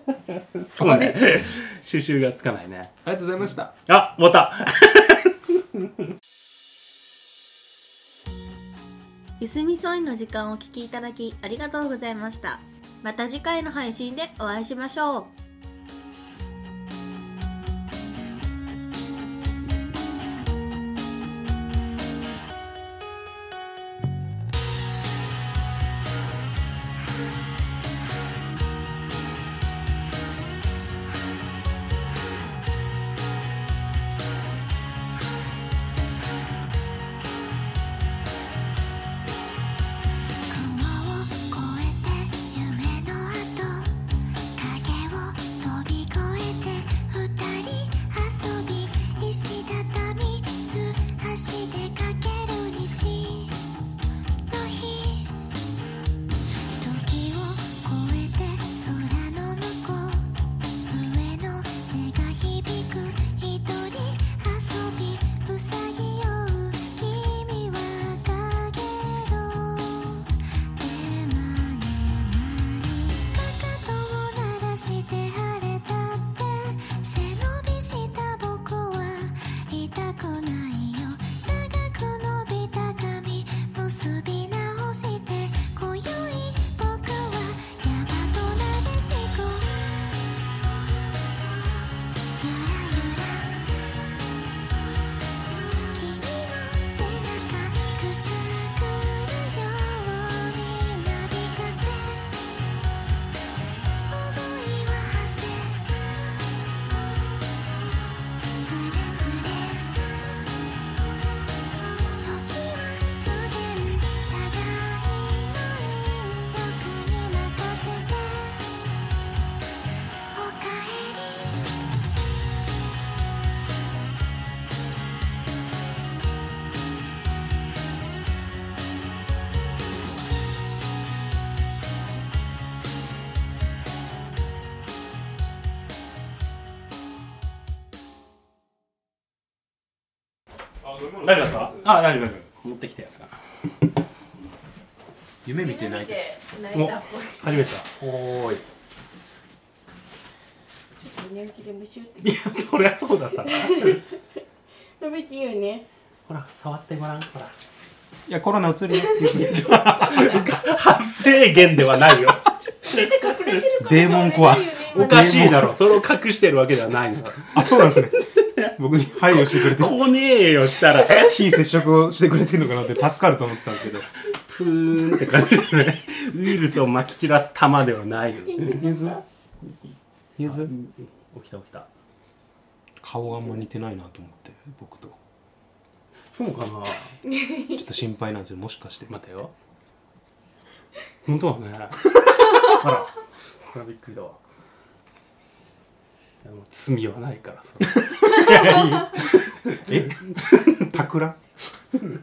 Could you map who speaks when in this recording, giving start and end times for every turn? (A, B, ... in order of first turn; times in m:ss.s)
0:00.3-0:02.9 A
0:00.8-0:01.2 B
0:03.0-0:03.7 B
0:03.9-0:05.6 A
0:09.4-0:15.3 C
0:40.5-0:44.0 D
0:44.5-0:53.6 D
0:54.5-0:55.5 D
0:56.8-1:00.3 D
1:00.9-1:30.0 D
1:32.4-1:33.6 D
1:35.5-1:42.4 D
1:44.1-1:46.4 D
1:48.6-1:50.5 D
1:52.2-1:58.7 D
2:00.3-2:01.6 D
2:20.9-2:21.8 B
2:21.2-2:23.4 A
2:25.4-2:26.4 B
2:25.6-2:27.6 E
2:26.7-2:28.6 A
2:31.0-2:32.3 E
2:32.2-2:34.0 A
2:33.5-2:34.0 E
2:35.0-2:35.9 E
2:36.3-2:37.5 A
2:38.3-2:40.5 B
2:39.1-2:40.3 E
2:40.0-2:43.8 A
2:42.8-2:45.6 E
2:43.8-2:45.8 B
2:44.9-2:48.7 A
2:47.5-2:48.2 B
2:48.7-2:50.0 B
2:49.2-2:51.4 A
2:51.0-2:54.1 B
2:54.3-2:58.8 A
2:58.7-2:59.2 B
3:00.4-3:00.7 B
3:00.4-3:01.9 A
3:03.0-3:05.2 B
3:06.3-3:07.2 A
3:07.3-3:07.7 E
3:07.6-3:09.1 B
3:09.1-3:09.5 A
3:11.2-3:13.1 A
3:13.7-3:14.4 A
3:16.4-3:21.0 A
3:18.2-3:21.4 B